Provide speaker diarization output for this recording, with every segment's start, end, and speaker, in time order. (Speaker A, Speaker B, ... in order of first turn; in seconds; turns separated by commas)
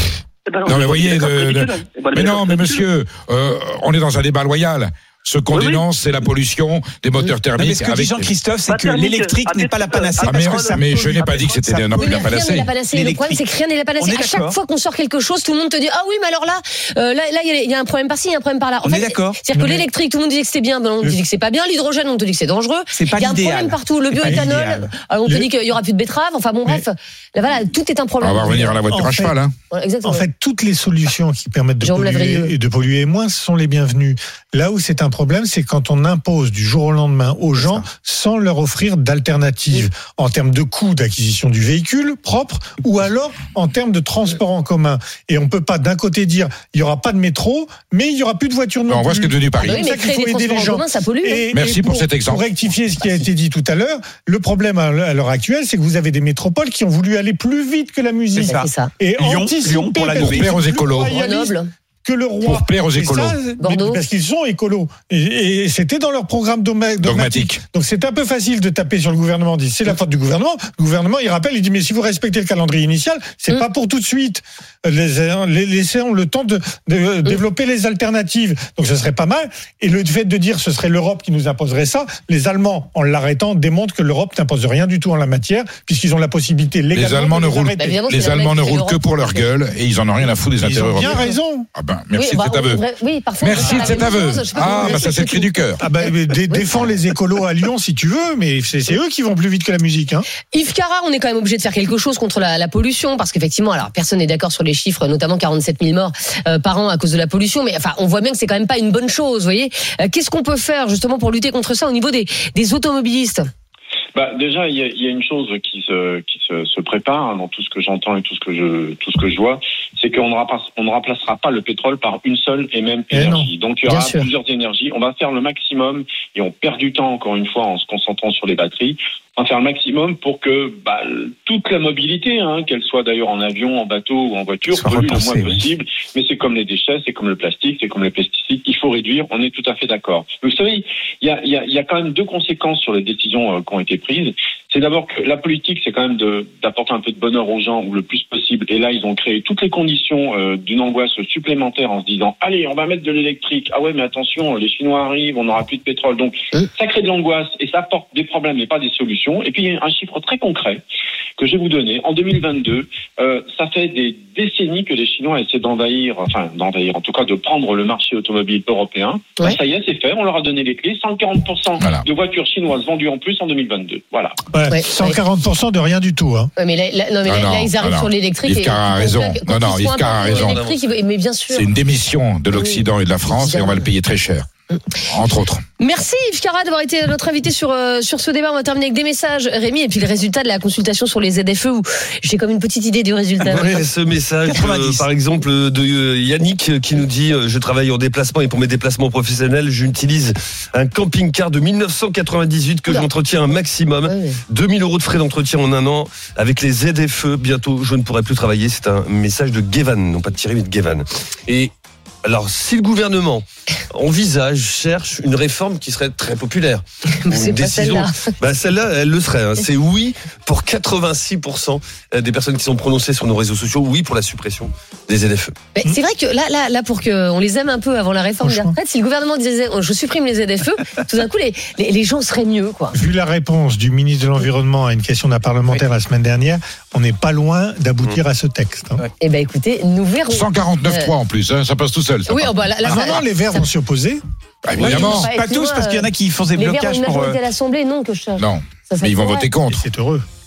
Speaker A: 0.5-2.8, Speaker B: 0.6-8.3, Speaker A: 5.5-5.8, Speaker C: 7.5-13.4, Speaker A: 8.7-10.8, Speaker B: 10.2-12.7, Speaker D: 12.0-28.8, Speaker C: 14.0-14.6, Speaker C: 18.8-19.4, Speaker E: 19.5-19.9, Speaker C: 22.9-24.8, Speaker E: 24.2-24.6, Speaker B: 28.2-29.5, Speaker E: 28.9-29.4, Speaker D: 29.7-30.2, Speaker E: 30.0-87.9, Speaker D: 31.8-32.5, Speaker B: 48.9-49.8, Speaker D: 49.6-51.5, Speaker B: 51.5-52.4, Speaker C: 58.3-60.5, Speaker D: 58.4-58.9, Speaker B: 60.1-61.1, Speaker D: 61.1-61.7, Speaker B: 62.4-63.4, Speaker D: 63.6-64.0, Speaker B: 67.0-67.6, Speaker B: 86.9-92.8, Speaker D: 87.8-89.5, Speaker E: 90.6-91.7, Speaker D: 92.1-95.5, Speaker B: 93.4-95.8, Speaker E: 93.7-94.0, Speaker E: 94.6-95.0, Speaker E: 95.8-100.3, Speaker D: 100.5-113.5, Speaker F: 114.1-160.8, Speaker E: 123.1-123.5, Speaker D: 123.9-124.3, Speaker C: 134.7-135.7, Speaker F: 161.4-174.4, Speaker B: 171.8-172.0, Speaker E: 174.5-176.5, Speaker D: 174.7-175.2, Speaker D: 176.6-181.7, Speaker B: 177.2-180.6, Speaker G: 180.0-180.8, Speaker B: 181.5-184.5, Speaker D: 182.5-183.9, Speaker B: 185.1-185.6, Speaker D: 185.8-193.7, Speaker G: 193.5-211.7, Speaker C: 193.5-193.9, Speaker C: 194.4-195.1, Speaker D: 204.1-204.4, Speaker G: 212.2-225.5, Speaker D: 217.1-218.3, Speaker D: 225.7-232.9, Speaker E: 228.4-228.8, Speaker E: 232.9-239.0, Speaker D: 239.2-241.1, Speaker B: 240.3-242.5, Speaker D: 242.3-243.6, Speaker E: 242.8-244.2, Speaker B: 244.6-245.3, Speaker C: 244.8-247.4, Speaker D: 244.8-249.5, Speaker B: 248.4-249.8, Speaker E: 249.7-250.2